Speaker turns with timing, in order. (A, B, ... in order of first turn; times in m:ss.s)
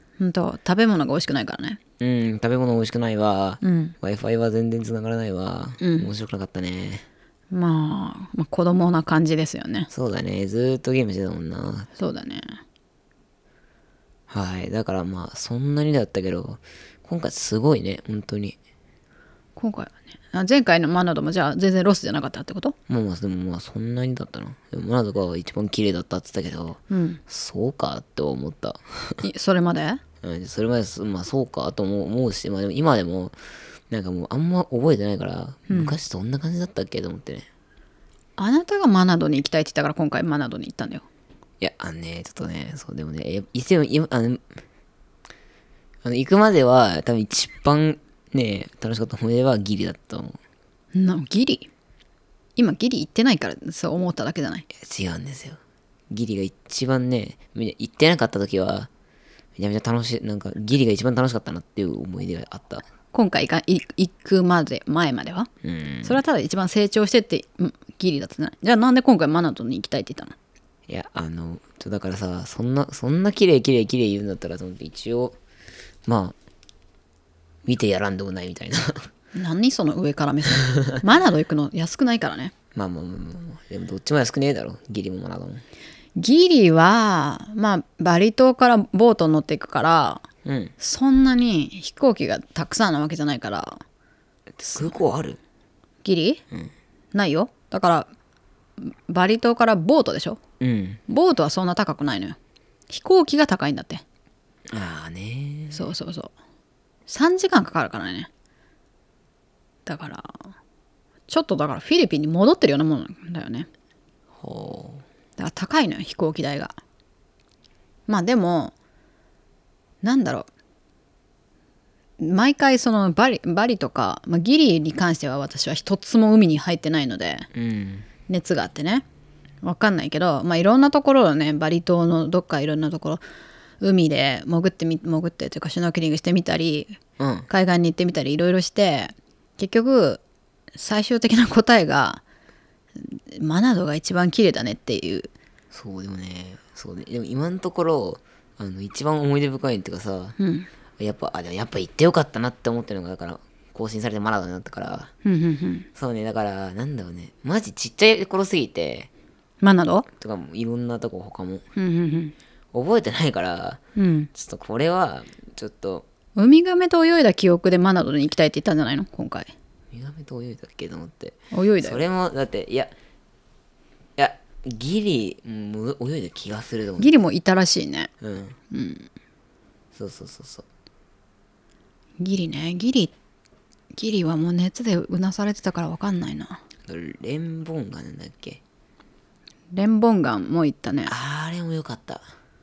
0:00.2-0:01.8 A
0:02.0-0:07.0 B
0:03.6-0:04.0 A
0:05.8-0:06.1 A
0:07.5-0:09.9 A
0:09.9-0:11.9 B
0:12.0-0:12.6 A
0:14.3-0:18.6 B
0:19.6-0:22.7 A
0:22.9-0:29.2 B
0:26.9-0:27.2 A
0:29.2-0:30.0 A
0:30.2-0:33.4 B
0:33.9-0:37.5 B
0:35.7-0:36.0 A
0:38.4-0:41.0 A
0:41.6-0:44.4 B
0:46.0-0:50.4 B
0:50.9-0:51.7 A
0:52.6-0:54.6 A
0:54.7-0:55.6 B
0:56.1-0:58.9 B
0:59.6-1:02.8 B
1:03.1-1:05.5 A
1:05.6-1:06.2 B
1:06.0-1:10.3 A
1:10.9-1:15.4 B
1:16.0-1:16.4 B
1:17.6-1:19.1 B
1:19.3-1:22.5 A
1:20.6-1:21.0 B
1:22.7-1:25.6 B
1:26.2-1:30.2 A
1:30.4-1:30.7 B
1:30.8-1:33.8 A
1:34.6-1:35.4 B
1:36.0-1:36.4 A
1:37.1-1:38.1 A
1:38.8-1:40.4 A
1:40.6-1:41.0 B
1:41.1-1:42.4 A
1:42.9-1:44.0 A
1:44.7-1:45.8 B
1:45.7-1:46.3 A
1:47.1-1:48.3 A
1:49.8-1:50.4 A
1:51.3-1:53.7 A
1:54.4-1:55.0 B
1:55.4-1:56.8 A
1:58.1-1:58.7 A
2:00.0-2:00.5 A
2:02.2-2:07.5 A
2:07.5-2:08.0 B
2:08.3-2:09.0 A
2:09.6-2:13.2 A
2:13.8-2:17.0 A
2:17.2-2:17.5 B
2:17.5-2:20.2 A
2:20.8-2:22.2 A
2:23.0-2:25.3 A
2:25.7-2:30.4 B
2:30.4-2:30.7 A
2:31.0-2:35.1 B
2:35.2-2:35.9 A
2:36.0-2:39.1 B
2:39.6-2:40.1 A
2:40.2-2:41.6 B
2:41.8-2:42.3 A
2:42.7-2:43.8 B
2:44.0-2:44.3 A
2:44.3-2:46.0 B
2:46.4-2:49.5 A
2:49.9-2:52.9 B
2:51.5-2:52.0 A
2:54.2-2:57.2 B
2:57.0-2:58.1 A
2:58.2-2:58.6 B
2:58.7-2:59.1 A
2:59.9-3:00.6 B
3:02.2-3:03.1 A
3:03.9-3:06.6 A
3:06.9-3:08.6 B
3:09.7-3:11.1 A
3:11.1-3:12.2 B